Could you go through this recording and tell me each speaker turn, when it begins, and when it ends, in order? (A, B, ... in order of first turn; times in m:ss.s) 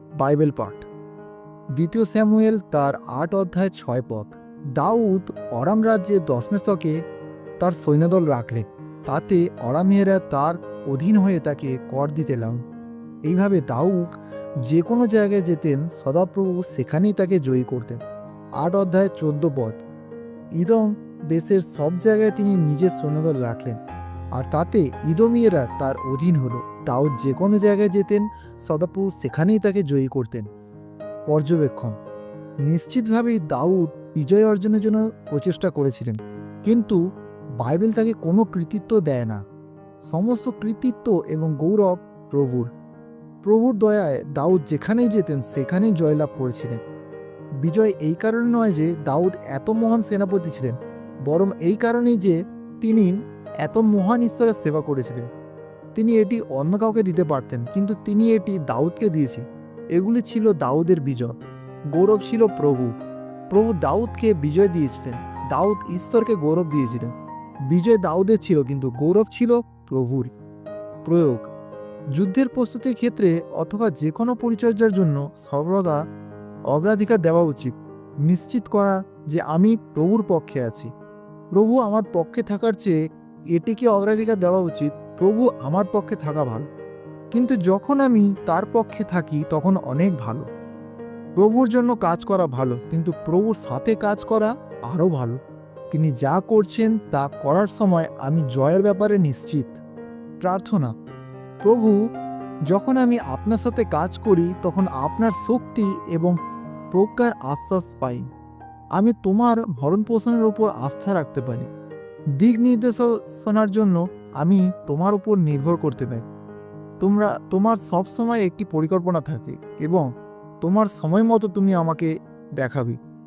0:00.2-0:00.8 A
0:01.8-0:07.0 A
0:07.6-0:12.6 A
0:13.3-0:18.0 A
0:18.6-0:19.8 A
0:20.6-0:23.8 A
0:24.4-0:30.5 A
0:31.3-0:31.9 A
0:32.6-0:37.0 A
0:37.6-0:39.4 A
0:40.1-0:42.7 A
0:43.4-0:46.8 A
0:47.6-0:50.8 A
0:51.3-0:55.3 A
0:56.0-0:59.4 A
1:00.0-1:01.3 A
1:01.9-1:02.9 A
1:03.5-1:07.1 A
1:07.7-1:10.3 A
1:11.1-1:11.5 A
1:12.1-1:16.0 A
1:16.7-1:17.7 A
1:18.2-1:20.9 A
1:21.6-1:23.0 A
1:23.5-1:26.7 A
1:27.3-1:30.5 A
1:31.4-1:35.4 A
1:35.9-1:39.8 A
1:40.4-1:40.9 A
1:41.6-1:42.0 A
1:42.7-1:46.4 A
1:46.9-1:48.2 A
1:49.0-1:51.7 A
1:52.4-1:56.2 A
1:57.0-2:00.0 A
2:00.6-2:03.0 A